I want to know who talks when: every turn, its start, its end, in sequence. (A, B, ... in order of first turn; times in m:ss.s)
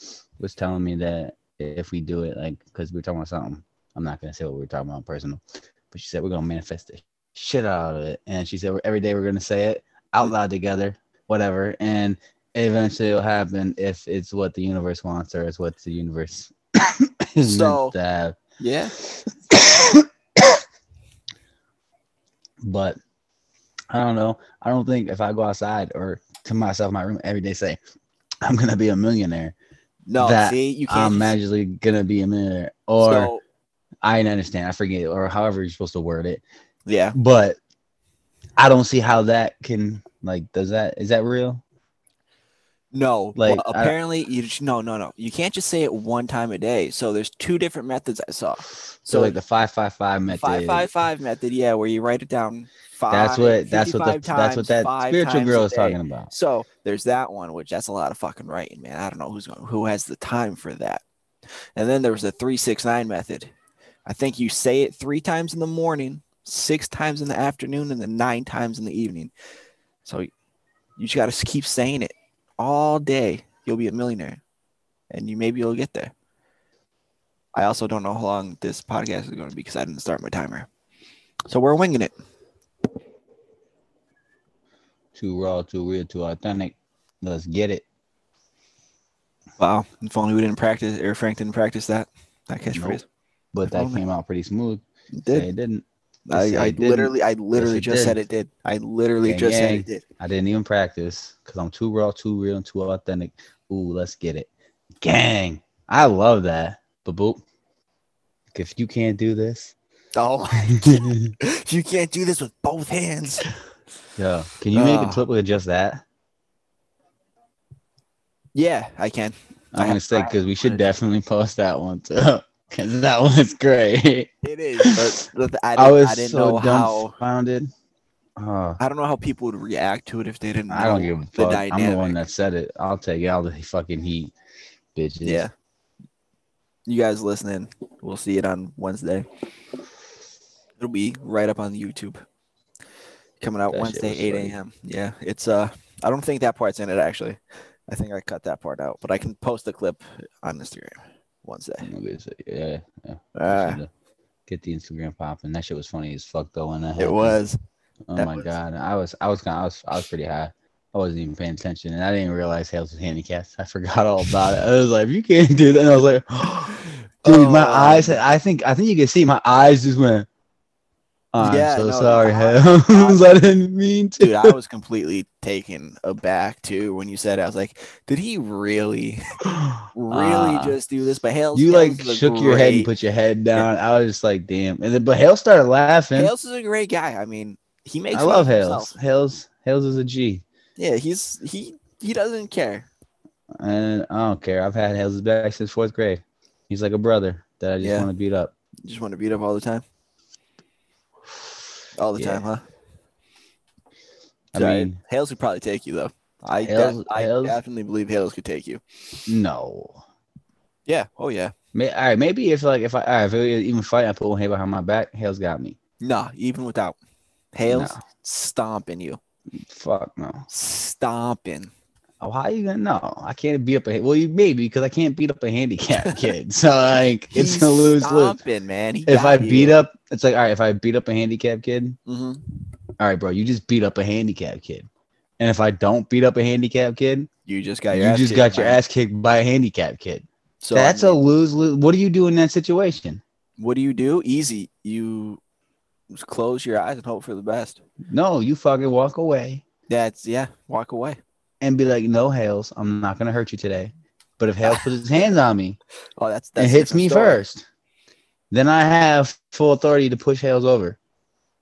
0:00.4-0:18.4 A
0:17.4-0:17.9 B
0:18.6-0:19.0 B
0:19.3-0:20.6 A
0:22.6-0:23.0 A
0:23.9-0:27.8 A
0:28.4-0:29.6 A
0:30.1-0:31.3 B
0:30.2-0:33.3 A
0:33.0-0:33.4 B
0:34.0-0:36.4 A
0:36.9-0:37.2 B
0:37.2-0:37.6 A
0:38.6-0:41.6 A
0:42.9-0:49.4 B
0:43.4-0:44.0 A
0:49.1-0:50.9 A
0:50.3-1:01.0 B
0:53.1-0:56.3 A
1:01.8-1:03.5 B
1:04.1-1:09.3 B
1:10.0-1:10.3 B
1:11.0-1:14.4 B
1:15.1-1:16.1 B
1:17.6-1:20.7 B
1:21.5-1:22.1 B
1:25.2-1:27.8 A
1:29.6-1:33.0 B
1:32.7-1:33.0 A
1:33.5-1:38.2 A
1:33.7-1:34.0 B
1:35.1-1:35.5 B
1:36.3-1:40.0 B
1:39.2-1:44.5 A
1:45.0-1:47.4 A
1:48.5-1:49.7 A
1:50.2-1:53.5 B
1:50.6-1:51.3 A
1:54.2-1:56.0 A
1:54.7-1:55.2 B
1:58.5-2:00.8 B
1:59.7-2:05.0 A
2:04.4-2:07.2 B
2:05.8-2:07.7 A
2:08.4-2:08.8 A
2:08.8-2:12.2 B
2:10.7-2:14.3 A
2:15.0-2:15.5 A
2:15.2-2:15.5 B
2:16.9-2:19.3 B
2:20.8-2:22.2 B
2:23.4-2:31.9 B
2:23.7-2:24.6 A
2:31.8-2:33.9 A
2:33.4-2:33.8 B
2:34.5-2:37.4 A
2:37.0-2:37.6 B
2:38.1-2:50.3 A
2:38.2-2:38.5 B
2:47.2-2:48.2 B
2:51.3-2:54.6 A
2:51.4-2:53.4 B
2:54.2-2:59.2 B
2:59.4-3:00.8 A
3:00.0-3:02.9 B
3:01.6-3:06.3 A
3:06.2-3:08.9 B
3:08.1-3:10.4 A
3:10.8-3:12.9 B
3:13.6-3:18.5 A
3:17.8-3:18.1 B
3:18.8-3:19.8 B
3:22.0-3:22.6 B
3:22.2-3:22.4 A
3:24.5-3:25.0 A
3:24.6-3:28.8 B
3:26.6-3:27.6 A
3:29.3-3:30.0 A
3:30.9-3:31.5 B
3:31.7-3:35.8 A
3:36.0-3:37.0 B
3:37.6-3:39.2 B
3:37.7-3:38.0 A
3:39.7-3:40.4 A
3:40.5-3:41.7 B
3:42.2-3:48.4 A
3:46.0-3:46.3 B
3:47.3-3:49.8 B
3:49.1-3:52.0 A
3:52.1-3:52.4 B
3:53.0-3:54.9 A
3:55.4-3:57.3 A
3:57.5-3:58.8 B
3:57.9-4:03.2 A
4:00.6-4:01.2 B
4:03.6-4:05.4 B
4:06.1-4:07.8 B
4:08.1-4:09.6 A
4:09.9-4:11.2 B
4:11.6-4:15.8 A
4:16.2-4:17.4 B
4:16.6-4:17.6 A
4:18.5-4:21.0 A